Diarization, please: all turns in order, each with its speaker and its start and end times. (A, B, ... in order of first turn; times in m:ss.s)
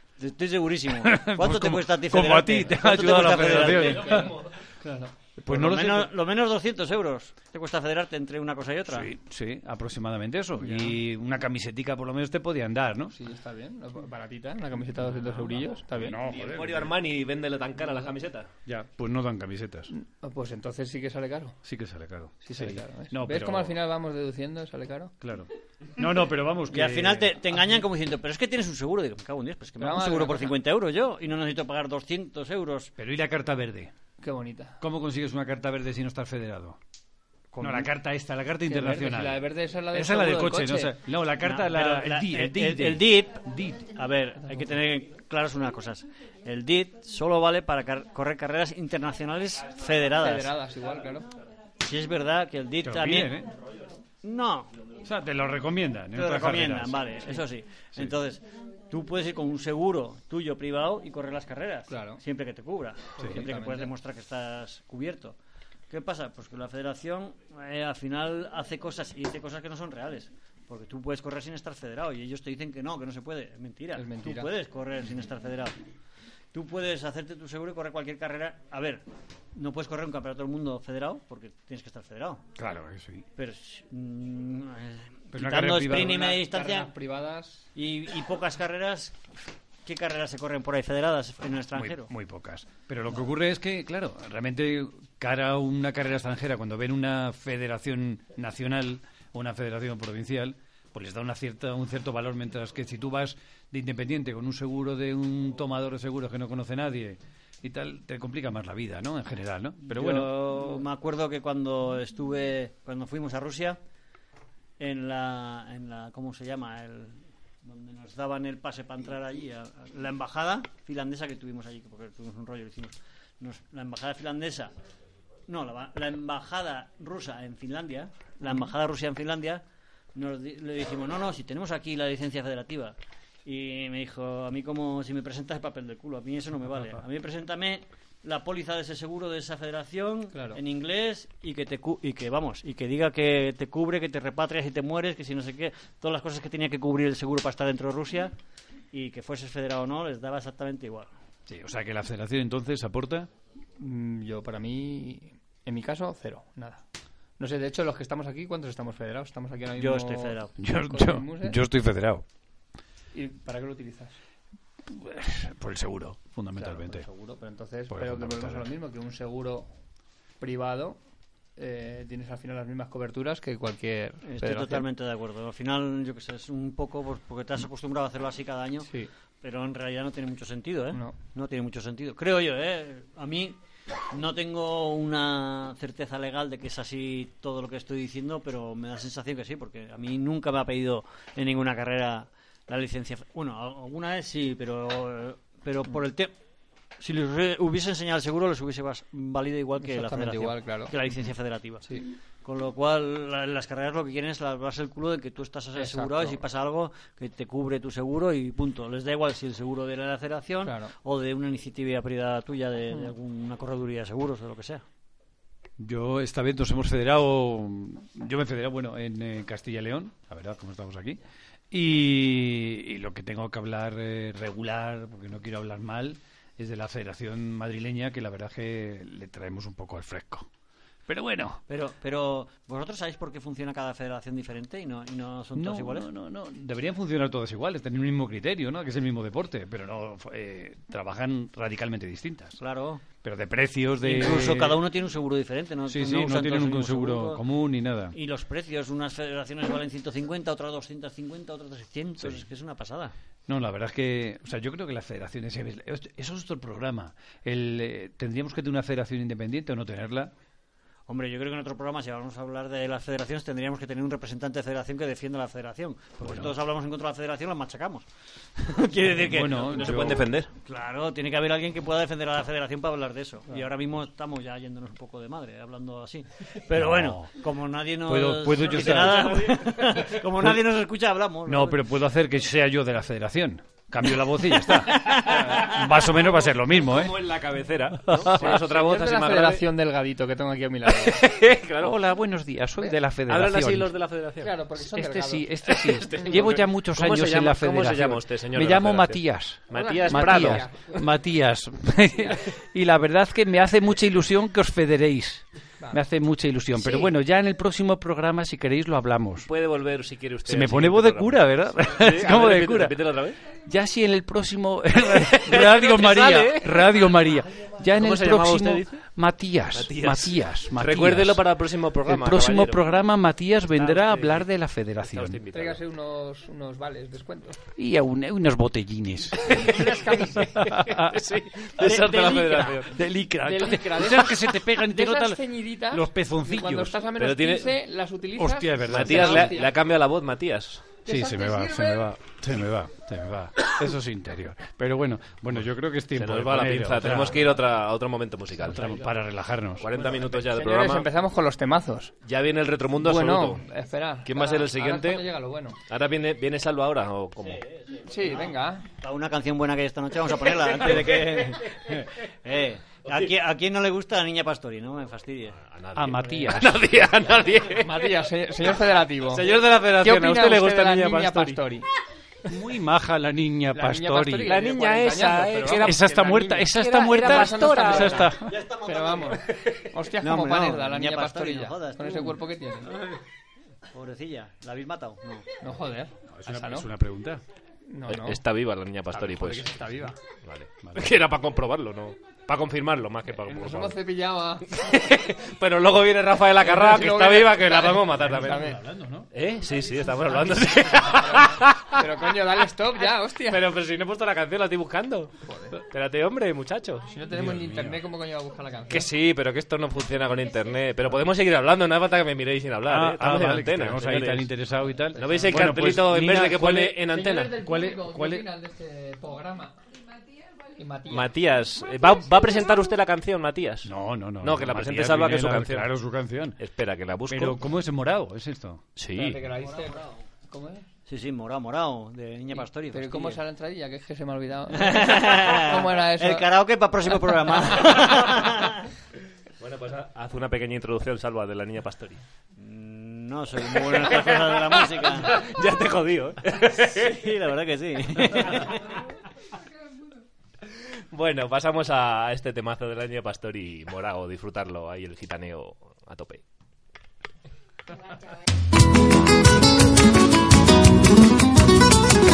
0:00.2-0:04.3 A
0:01.0-0:04.4 B
0:04.8-0:05.1 C
0:05.4-0:06.1 B
0:05.5-0:09.1 A
0:08.9-0:13.1 B
0:13.1-0:16.2 C
0:15.2-0:16.9 B
0:16.2-0:18.5 D
0:18.6-0:19.9 B
0:19.9-0:21.6 C
0:21.6-0:23.8 B
0:22.4-0:25.1 C
0:25.2-0:27.4 B
0:26.7-0:32.9 A
0:29.8-0:30.5 C
0:33.0-0:33.9 B
0:34.2-0:34.8 C
0:34.8-0:36.8 B
0:37.5-0:37.9 C
0:37.6-0:43.8 B
0:38.6-0:40.9 C
0:41.4-0:50.5 A
0:50.2-0:51.3 C
0:51.8-0:53.4 A
0:52.8-0:53.5 B
0:54.2-0:54.7 A
0:55.0-0:57.4 B
0:56.1-1:05.4 A
1:01.9-1:02.2 C
1:03.2-1:03.4 B
1:03.2-1:03.9 C
1:05.9-1:15.8 A
1:13.9-1:14.5 C
1:16.5-1:22.4 A
1:22.6-1:23.2 B
1:23.4-1:26.9 A
1:25.3-1:26.3 B
1:26.0-1:27.7 C
1:27.7-1:29.2 A
1:29.8-1:32.1 A
1:31.7-1:50.4 B
1:49.8-1:53.8 A
1:54.8-2:04.7 A
2:05.5-2:09.6 A
2:10.1-2:28.3 A
2:20.3-2:20.6 C
2:28.9-2:31.1 A
2:31.5-2:33.3 B
2:33.8-2:36.8 C
2:37.4-2:41.6 C
2:39.8-2:40.5 A
2:40.6-2:42.2 B
2:43.1-2:44.2 C
2:44.9-2:47.0 B
2:46.6-2:49.7 C
2:47.9-2:48.7 B
2:50.4-2:51.0 C
2:51.6-2:54.8 C
2:54.2-2:58.9 A
2:59.4-3:03.6 A
3:04.1-3:16.3 A
3:17.0-3:21.9 A
3:19.8-3:20.9 C
3:22.4-3:34.8 A
3:25.8-3:26.4 C
3:30.6-3:30.9 C
3:35.8-3:41.2 B
3:41.7-3:50.5 B
3:51.1-3:51.6 B
3:51.7-3:56.1 A
3:55.5-4:02.6 B
4:02.6-4:03.0 A
4:03.2-4:04.8 B
4:04.0-4:07.4 A
4:05.8-4:08.2 B
4:08.1-4:13.1 A
4:12.2-4:12.4 B
4:13.5-4:20.3 B
4:21.1-4:29.8 A
4:26.2-4:26.6 B
4:29.2-4:30.2 B
4:29.4-4:30.5 D
4:30.6-4:41.8 A
4:36.7-4:37.3 B
4:38.0-4:39.6 B
4:38.7-4:39.6 D
4:40.2-4:40.6 B
4:41.4-4:47.2 B
4:44.8-4:45.7 A
4:45.3-4:45.7 C
4:46.4-4:49.6 D
4:48.0-4:48.6 B
4:48.3-4:51.2 C
4:50.9-4:52.0 D
4:51.8-4:53.9 B
4:53.3-4:54.5 D
4:54.4-4:55.6 C
4:54.8-5:09.5 B
4:55.7-5:01.1 D
4:56.1-4:56.4 C
4:59.7-5:00.9 C
5:09.4-5:13.4 D
5:10.4-5:13.1 B
5:13.6-5:25.4 B
5:15.2-5:19.1 D
5:19.7-5:23.0 D
5:23.7-5:24.5 D
5:25.0-5:25.8 D
5:25.5-5:27.6 C
5:27.8-5:37.0 B
5:29.5-5:29.9 D
5:29.5-5:30.6 C
5:30.6-5:33.0 D
5:33.4-5:39.7 C
5:37.2-5:37.7 D
5:38.4-5:39.6 B
5:38.9-5:40.8 D
5:41.0-5:42.1 C
5:41.1-5:47.6 B
5:45.5-5:49.1 D
5:48.6-5:49.9 B
5:49.8-5:51.1 D
5:50.2-5:52.1 C
5:52.2-5:53.6 D
5:53.0-5:55.8 C
5:54.2-5:55.3 D
5:55.9-5:57.6 D
5:57.7-6:05.6 A
5:58.0-5:58.8 C
6:00.8-6:01.8 B
6:05.6-6:08.1 D
6:05.9-6:07.1 B
6:07.8-6:11.9 C
6:09.3-6:10.0 D
6:09.4-6:11.6 B
6:12.5-6:14.6 B
6:13.7-6:23.0 C
6:14.4-6:18.4 D
6:15.8-6:18.6 B
6:18.4-6:19.4 A
6:20.2-6:23.2 A
6:23.9-6:25.5 A
6:25.6-6:26.9 C
6:26.3-6:27.4 B
6:27.9-6:28.4 C
6:28.1-6:29.9 D
6:29.1-6:30.2 C
6:30.4-6:34.0 D
6:30.8-6:31.2 B
6:33.4-6:34.7 C
6:34.7-6:38.7 D
6:36.6-6:38.8 C
6:38.1-6:39.3 B
6:39.3-6:42.5 D
6:41.0-6:43.7 C
6:43.4-6:47.1 D
6:45.4-6:45.8 C
6:47.1-6:49.1 C
6:47.3-6:48.0 B
6:48.9-6:54.5 D
6:52.8-6:57.0 B
6:55.0-6:55.7 C
6:55.2-6:57.6 D
6:57.0-6:59.8 C
6:57.6-6:58.5 B
7:00.7-7:01.3 C
7:01.1-7:05.9 D
7:03.8-7:06.6 B
7:06.6-7:07.7 D
7:07.3-7:08.8 B
7:09.0-7:09.4 D
7:09.1-7:10.8 C
7:09.6-7:10.2 A
7:11.1-7:13.4 A
7:12.5-7:16.5 C
7:14.7-7:18.9 A
7:19.6-7:22.2 D
7:22.6-7:25.4 A
7:23.8-7:27.3 D
7:26.9-7:29.0 A
7:30.8-7:36.4 D